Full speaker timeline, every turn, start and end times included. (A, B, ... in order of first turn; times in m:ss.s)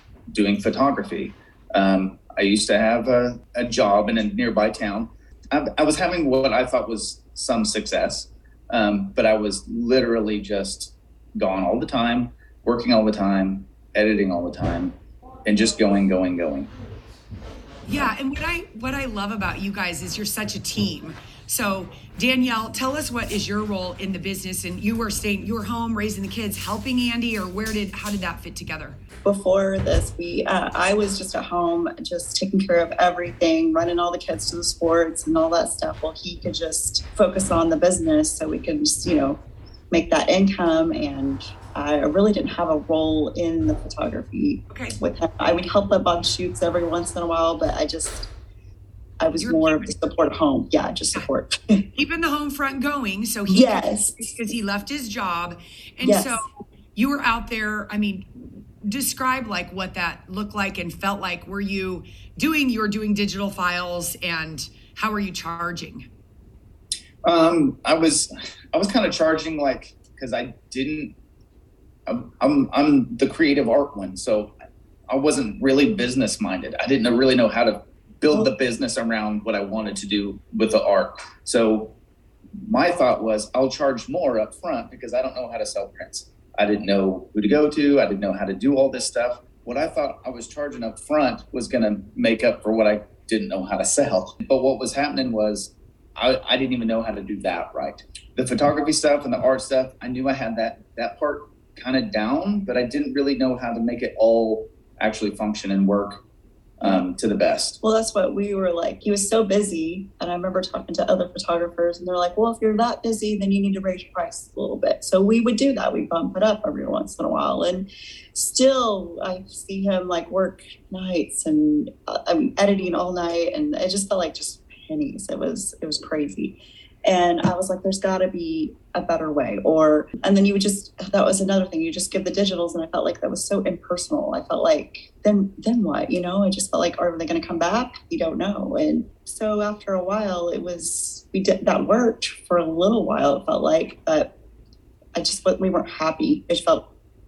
0:00.3-0:16.7 A
0:17.8-0:29.0 B
0:29.2-0:39.4 C
0:39.9-0:48.3 C
0:44.7-0:45.0 B
0:49.2-0:51.8 C
0:49.4-0:49.9 B
0:51.9-1:06.1 B
0:53.5-0:54.4 C
0:56.0-0:56.4 C
1:07.2-1:11.1 A
1:12.0-1:14.5 A
1:15.1-1:21.9 A
1:22.6-1:46.2 A
1:46.8-1:47.8 A
1:47.8-2:24.3 C
2:25.1-2:26.9 C